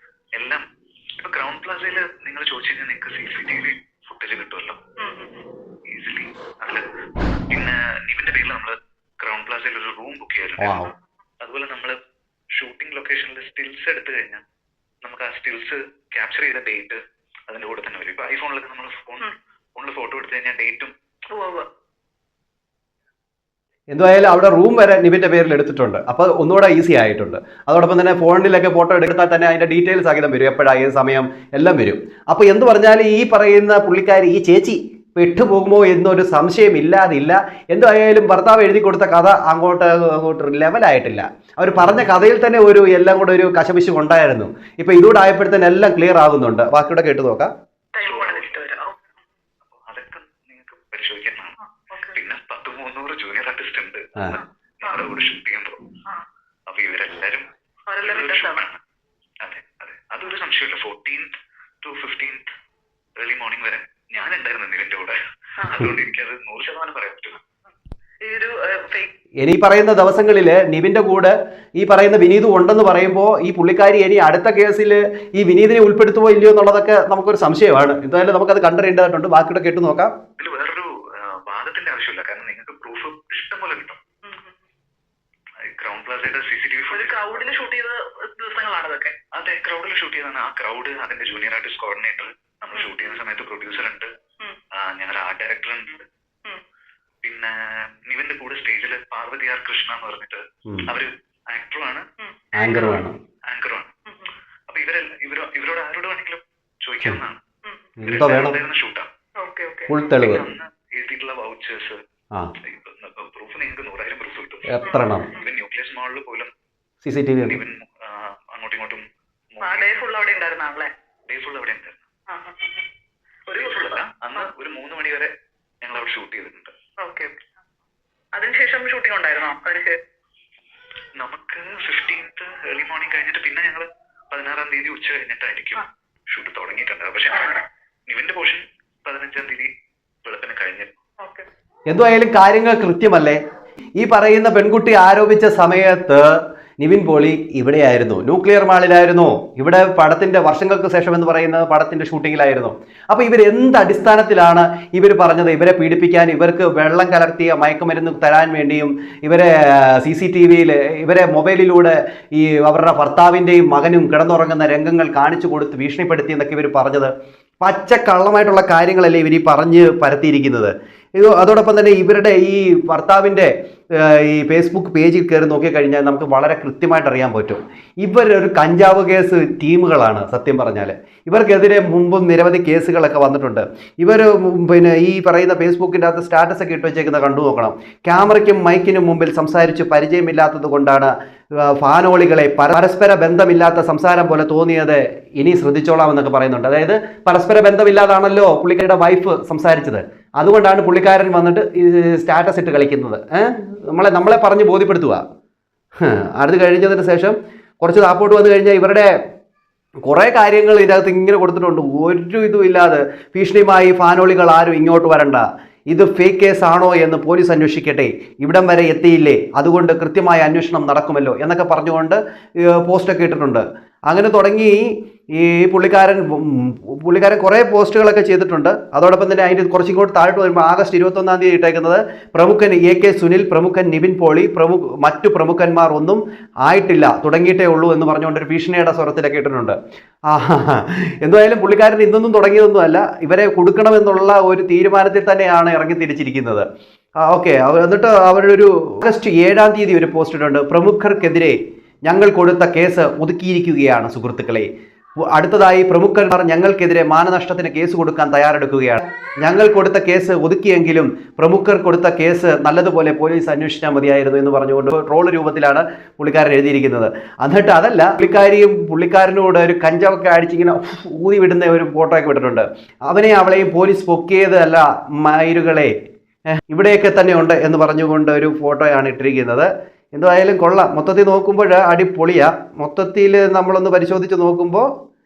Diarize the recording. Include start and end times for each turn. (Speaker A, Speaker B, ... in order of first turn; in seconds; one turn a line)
Speaker A: 0.3-0.6
Speaker A: 1.2-4.8
Speaker B: 5.0-5.5
Speaker A: 5.9-6.9
Speaker A: 7.5-10.8
Speaker C: 10.6-10.9
Speaker A: 11.4-12.0
Speaker A: 12.6-14.4
Speaker A: 15.0-20.9
Speaker B: 21.3-21.7
Speaker C: 23.9-47.5
Speaker B: 48.0-49.2
Speaker A: 48.0-48.6
Speaker A: 49.7-51.6
Speaker B: 51.6-52.2
Speaker A: 52.1-55.8
Speaker B: 54.3-55.1
Speaker A: 56.7-57.5
Speaker B: 57.9-58.6
Speaker A: 58.0-58.8
Speaker A: 59.4-61.3
Speaker A: 61.8-62.5
Speaker A: 63.2-67.4
Speaker B: 65.6-65.9
Speaker B: 68.2-69.1
Speaker C: 69.4-80.1
Speaker A: 80.4-84.0
Speaker B: 84.2-84.6
Speaker A: 85.7-87.6
Speaker B: 86.9-89.2
Speaker A: 89.3-94.1
Speaker A: 94.8-96.1
Speaker A: 97.2-97.5
Speaker A: 98.1-102.0
Speaker B: 102.2-103.1
Speaker C: 102.6-103.2
Speaker A: 103.5-103.9
Speaker B: 104.1-104.3
Speaker A: 104.7-107.4
Speaker B: 107.6-107.9
Speaker C: 108.0-108.6
Speaker A: 108.0-109.1
Speaker B: 109.4-110.0
Speaker C: 109.9-110.5
Speaker A: 110.2-112.0
Speaker A: 112.6-116.5
Speaker C: 114.7-115.3
Speaker B: 114.8-115.4
Speaker C: 117.0-117.6
Speaker A: 117.4-120.0
Speaker B: 119.6-120.9
Speaker A: 121.3-122.1
Speaker B: 122.3-122.9
Speaker B: 123.5-124.5
Speaker A: 123.6-126.7
Speaker B: 127.0-127.3
Speaker B: 128.3-130.0
Speaker A: 131.2-139.7
Speaker B: 137.3-137.6
Speaker A: 140.2-141.0
Speaker B: 141.2-141.5
Speaker C: 141.9-143.4
Speaker C: 144.0-205.2
Speaker C: 206.0-209.1
Speaker C: 210.1-239.8
Speaker C: 240.3-246.7
Speaker C: 247.2-254.7
Speaker C: 255.3-275.9
Speaker C: 276.5-284.9